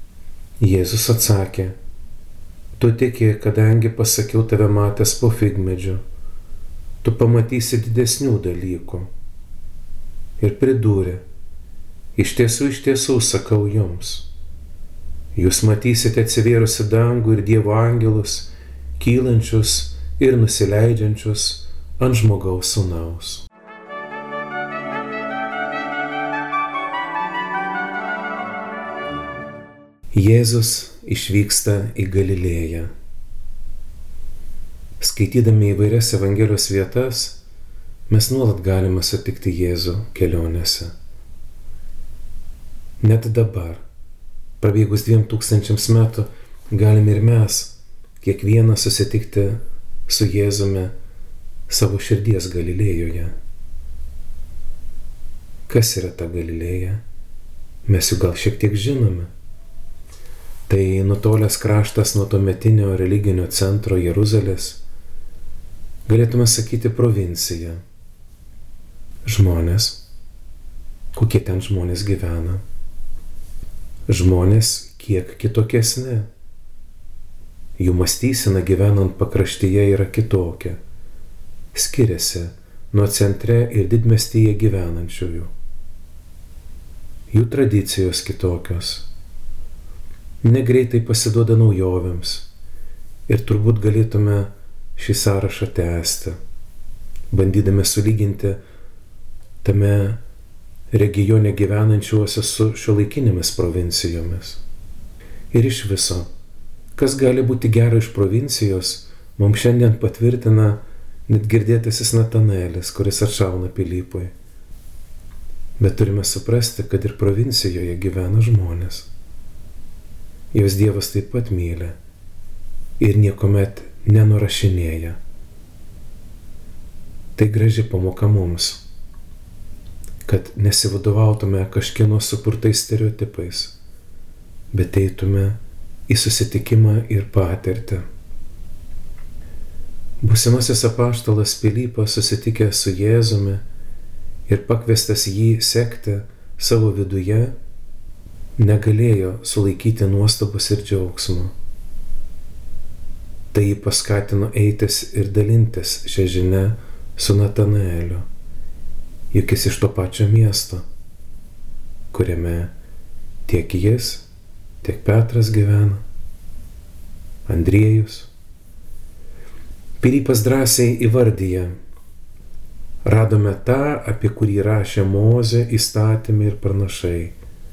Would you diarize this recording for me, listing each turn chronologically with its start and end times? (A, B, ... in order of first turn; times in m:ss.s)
0:00.6-0:01.8 A
0:02.8-0:06.0 A
0:07.0-0:09.1 A
0:10.4-0:11.2 A
0:12.2-0:14.3 A
0:15.3-0:23.5 A
0:30.1-0:32.9 A
0:35.0-0:37.4 A
0:38.1-0:40.9 A
0:43.0-0:43.8 A
0:44.6-0:50.9 A
0:51.7-0:53.4 A
0:55.7-0:57.0 A
0:57.9-0:59.3 A
1:00.7-1:04.8 A
1:06.1-1:07.8 A
1:09.2-1:10.0 A
1:11.1-1:12.6 A
1:14.1-1:16.3 A
1:17.8-1:20.8 A
1:21.7-1:25.5 A
1:27.3-1:29.1 A
1:30.4-1:32.5 A
1:33.3-1:36.4 A
1:37.3-1:38.6 A
1:39.6-1:40.2 A
1:40.9-1:44.6 A
1:45.5-1:46.3 A
1:47.0-1:54.3 A
1:55.8-1:59.1 A
2:00.5-2:02.0 A
2:03.0-2:05.2 A
2:07.4-2:08.8 A
2:10.2-2:13.8 A
2:14.7-2:18.0 A
2:20.2-2:23.6 A
2:24.5-2:27.6 A
2:28.6-2:31.5 A
2:33.5-2:38.2 A
2:39.3-2:40.8 A
2:42.1-2:42.7 A
2:43.4-2:44.3 A
2:44.8-2:46.0 A
2:47.5-2:48.3 A
2:50.0-2:51.7 A
2:53.0-2:57.4 A